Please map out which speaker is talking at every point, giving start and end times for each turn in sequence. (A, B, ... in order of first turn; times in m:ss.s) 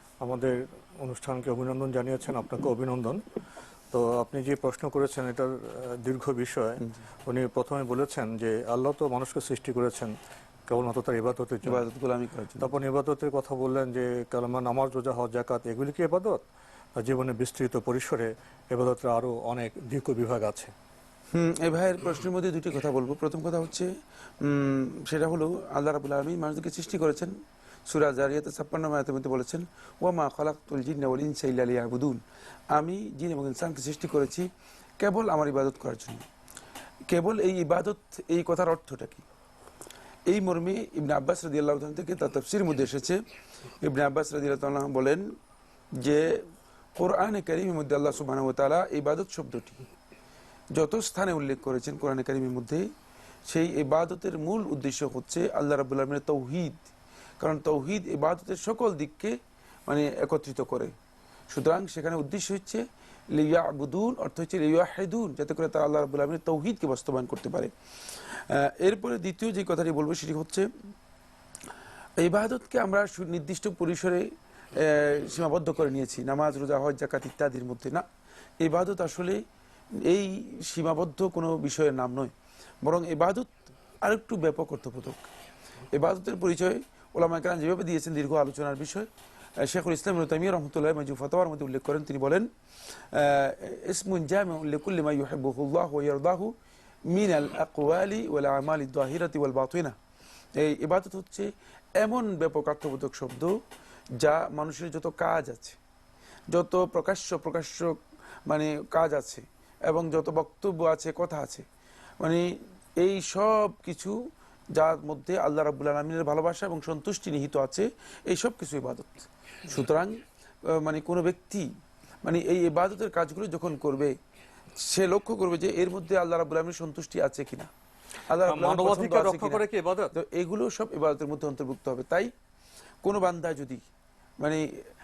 0:00.2-0:03.2 A
0:03.9-0:10.1 A
0:10.7-0:11.8 A
0:11.6-0:12.7 B
0:12.6-0:16.4 A
0:17.0-0:20.7 A
0:21.3-0:23.9 B
0:24.4-0:27.3 B
0:27.9-0:32.2 B
0:32.7-0:34.5 B
0:35.0-0:36.2 B
0:37.1-0:39.2 B
0:40.3-0:43.2 B
0:43.8-0:45.2 B
0:46.0-0:46.2 B
0:47.0-0:49.8 B
0:50.7-0:52.8 B
0:53.5-0:56.9 B
0:57.4-0:59.3 B
0:59.9-1:00.9 B
1:01.5-1:02.8 B
1:03.3-1:07.7 B
1:08.3-1:10.7 B
1:12.2-1:18.0 B
1:18.6-1:19.4 B
1:20.0-1:22.3 B
1:22.8-1:25.2 B
1:25.9-1:29.1 B
1:29.6-1:32.5 B
1:33.1-1:36.5 B
1:37.1-1:39.9 B
1:40.6-1:41.5 B
1:42.0-1:43.5 B
1:44.2-1:45.8 B
1:46.5-1:47.9 B
1:48.5-1:51.6 B
1:52.2-1:52.4 B
1:53.0-1:54.1 B
1:54.8-2:00.1 B
2:00.7-2:01.6 B
2:02.2-2:04.1 B
2:04.9-2:07.7 B
2:08.3-2:09.6 B
2:08.4-2:10.1 A
2:10.1-2:12.3 B
2:13.0-2:13.8 B